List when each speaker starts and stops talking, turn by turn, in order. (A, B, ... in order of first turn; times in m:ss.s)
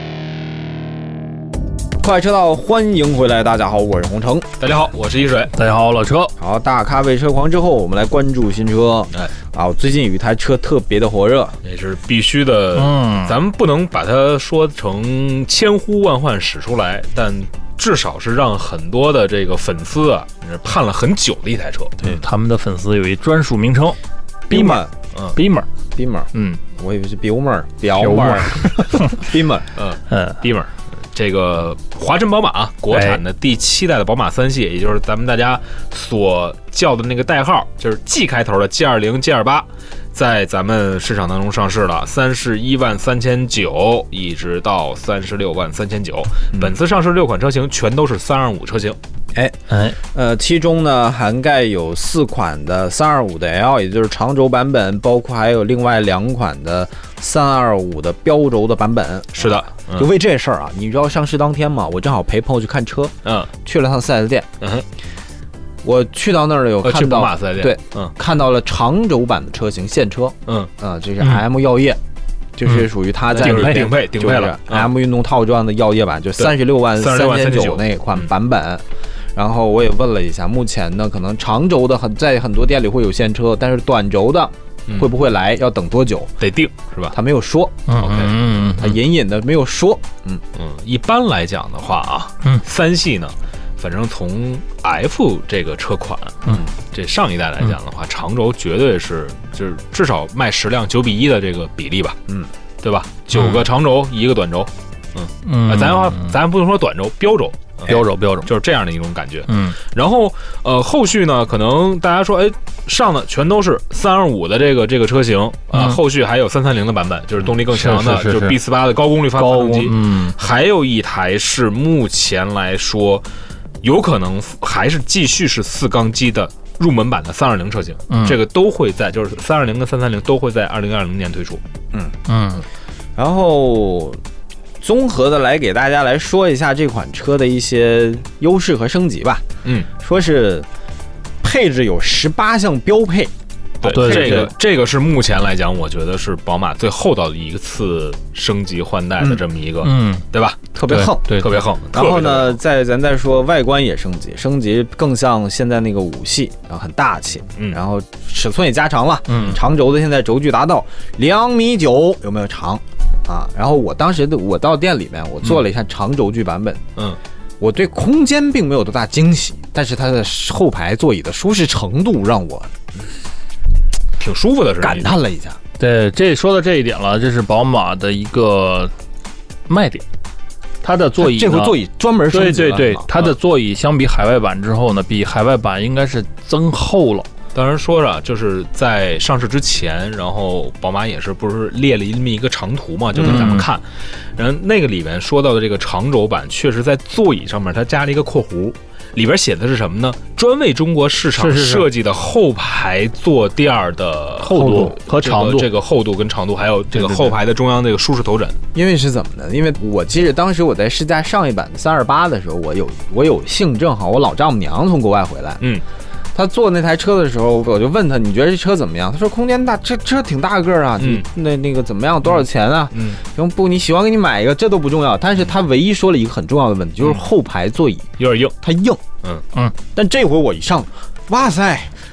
0:02.0-0:04.4 A
0:04.6-0:05.5 B
0:05.5-0:06.3 C
0:06.4-0:11.6 A
0:11.6-0:22.2 B
0:12.7-0:13.4 C
0:22.0-0:24.0 C
0:24.5-0:24.9 A
0:24.5-0:24.8 C
0:25.3-0:25.7 C
0:25.9-0:29.7 A
0:26.3-0:26.6 C
0:28.0-0:29.2 C
0:29.8-0:49.0 B
0:30.1-0:30.4 C
0:32.9-0:33.2 C
0:49.7-0:50.0 C
0:50.1-1:04.5 A
0:59.3-1:00.1 B
1:03.2-1:03.5 B
1:04.6-1:04.8 B
1:05.8-1:12.0 A
1:06.8-1:08.1 B
1:12.6-1:18.8 A
1:13.4-1:14.9 B
1:13.4-1:13.9 C
1:16.4-1:18.3 B
1:19.3-1:26.3 A
1:26.4-1:27.1 B
1:27.1-1:27.8 A
1:27.9-1:29.0 C
1:28.0-1:28.3 B
1:28.8-1:30.4 A
1:30.6-1:42.2 B
1:42.8-2:03.3 B
1:43.3-1:43.6 C
1:45.4-1:46.4 C
1:47.9-1:48.5 C
1:49.5-1:49.8 C
1:55.7-1:56.0 C
1:57.6-1:58.6 C
1:59.3-2:00.4 C
2:03.8-2:11.6 B
2:08.1-2:08.4 C
2:12.3-2:12.6 C
2:13.2-2:14.2 A
2:14.8-2:19.4 A
2:20.0-2:20.7 A
2:21.4-2:24.5 A
2:23.8-2:30.6 B
2:23.8-2:24.5 C
2:29.8-2:30.2 C
2:30.7-2:46.8 A
2:30.9-2:31.5 C
2:31.3-2:32.6 B
2:39.3-2:39.6 C
2:47.6-2:52.7 A
2:54.2-2:55.1 B
2:54.8-2:55.6 A
2:55.8-2:58.9 C
2:59.7-3:00.0 C
3:00.8-3:01.8 C
3:01.2-3:03.1 A
3:02.3-3:07.3 C
3:07.5-3:28.6 B
3:13.1-3:13.6 A
3:13.2-3:13.7 C
3:21.3-3:21.9 C
3:24.4-3:25.7 C
3:24.6-3:24.9 A
3:26.9-3:27.3 C
3:28.7-3:35.6 A
3:36.3-3:49.0 A
3:41.0-3:41.2 B
3:42.3-3:43.2 B
3:48.2-3:48.5 B
3:49.9-3:51.9 A